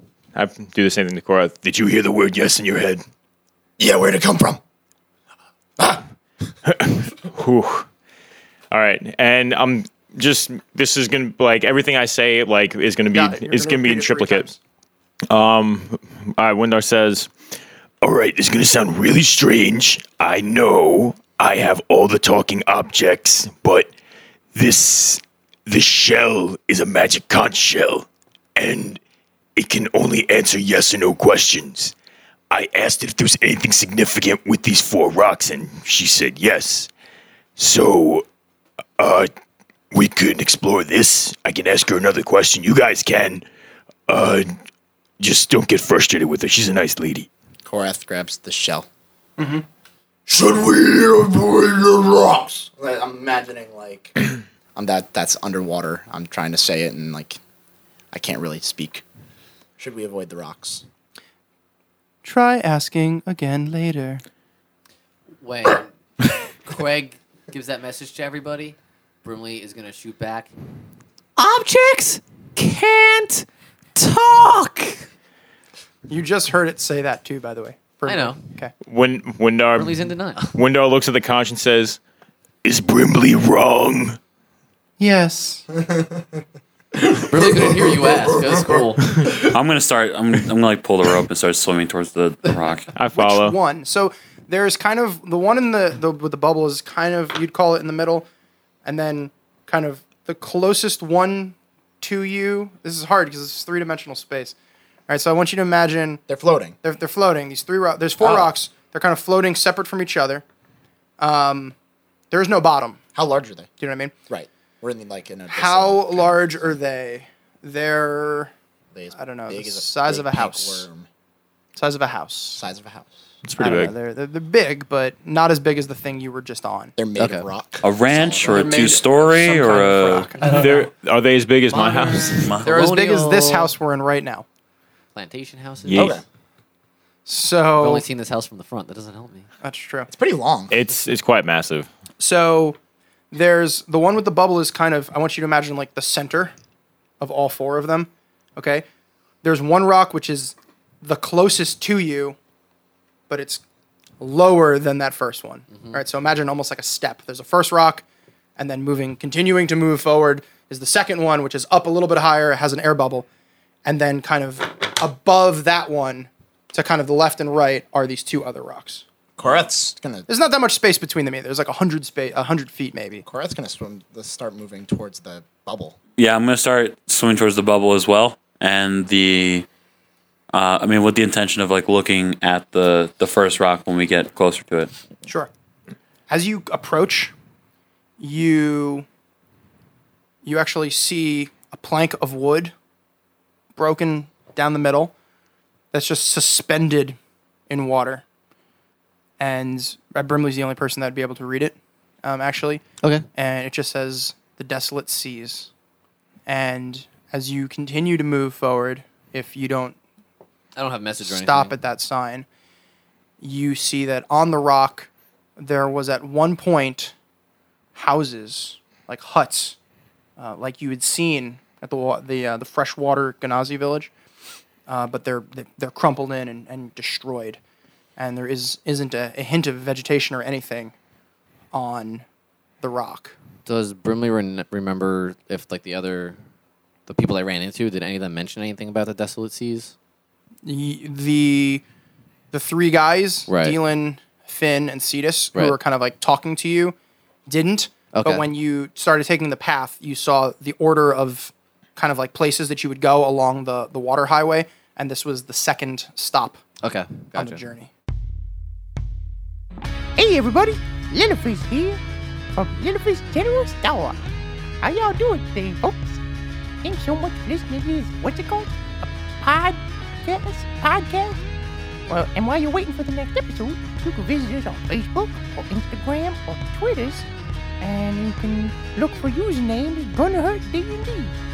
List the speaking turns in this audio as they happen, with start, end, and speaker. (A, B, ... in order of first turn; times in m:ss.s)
0:00.4-0:01.6 A
0:01.6-0:03.0 B
0:03.8-0:04.6 C
0:05.8-0:06.0 C
0:06.7-0:07.9 A
0:08.7-0:14.5 A
0:13.1-0:14.6 D
0:15.3-0:17.3 A
0:18.0-0:23.9 B
0:24.5-0:29.0 B
0:29.6-0:32.0 B
0:32.5-0:36.9 B
0:37.6-0:38.3 B
0:39.0-0:39.3 B
0:39.9-0:43.5 B
0:44.1-0:44.5 B
0:45.2-0:47.3 B
0:47.6-0:48.9 C
0:49.4-0:49.6 D
0:50.3-0:54.2 C
0:54.8-0:57.4 C
0:58.1-0:59.0 C
0:59.8-1:00.8 C
1:02.2-1:04.2 D
1:05.4-1:10.5 E
1:11.4-1:15.0 E
1:16.1-1:18.7 D
1:18.0-1:18.4 E
1:18.8-1:22.0 A
1:19.8-1:20.6 E
1:22.6-1:24.2 B
1:25.0-1:25.7 D
1:25.7-1:26.3 C
1:27.0-1:29.4 C
1:27.3-1:29.2 E
1:29.4-1:32.9 F
1:32.9-1:33.6 A
1:33.1-1:38.3 D
1:38.8-1:44.6 D
1:45.1-1:46.2 D
1:46.3-1:46.8 C
1:46.8-1:50.4 D
1:48.2-1:48.5 C
1:51.2-1:51.8 D
1:52.3-1:53.0 D
1:53.1-1:53.7 C
1:53.8-1:54.1 D
1:54.3-1:56.8 C
1:55.5-1:58.5 D
1:58.9-2:01.1 C
1:59.2-2:00.9 D
2:01.8-2:02.6 D
2:02.6-2:03.1 C
2:03.4-2:03.9 A
2:03.6-2:06.9 D
2:07.0-2:09.0 C
2:07.2-2:07.5 E
2:07.8-2:10.3 F
2:08.5-2:10.8 D
2:10.4-2:12.6 A
2:10.4-2:10.7 E
2:11.7-2:13.7 E
2:12.6-2:14.4 D
2:15.2-2:16.2 E
2:15.9-2:16.2 A
2:15.9-2:16.2 C
2:17.3-2:18.0 D
2:17.8-2:19.5 E
2:19.6-2:20.1 D
2:20.1-2:20.8 C
2:20.7-2:21.9 A
2:22.2-2:22.8 D
2:23.3-2:26.5 D
2:27.2-2:28.8 D
2:29.4-2:32.4 D
2:33.3-2:33.6 D
2:34.2-2:38.0 D
2:35.7-2:36.0 E
2:38.6-2:43.3 D
2:43.8-2:49.0 D
2:49.4-2:50.3 C
2:50.3-2:53.3 D
2:53.2-2:56.0 C
2:56.2-2:59.7 F
3:00.5-3:04.9 F
3:06.3-3:07.3 D
3:08.2-3:09.1 D
3:10.4-3:12.7 D
3:13.8-3:15.1 D
3:15.9-3:17.2 D
3:17.7-3:18.2 D
3:19.4-3:22.8 D
3:23.4-3:25.7 D
3:26.5-3:30.0 D
3:30.8-3:31.8 E
3:31.2-3:32.5 D
3:33.4-3:37.1 D
3:38.0-3:39.8 D
3:40.4-3:44.1 D
3:44.9-3:47.6 D
3:48.2-3:50.9 D
3:51.7-3:52.2 D
3:52.8-3:53.4 D
3:53.7-3:56.4 E
3:57.1-3:59.9 E
4:00.6-4:01.8 D
4:02.5-4:07.0 D
4:03.5-4:03.8 E
4:07.5-4:16.6 D
4:08.1-4:08.5 E
4:16.8-4:17.6 E
4:17.4-4:17.9 D
4:20.2-4:22.0 G
4:22.6-4:24.2 G
4:24.8-4:26.2 G
4:26.8-4:31.4 G
4:32.1-4:37.3 G
4:37.8-4:41.4 G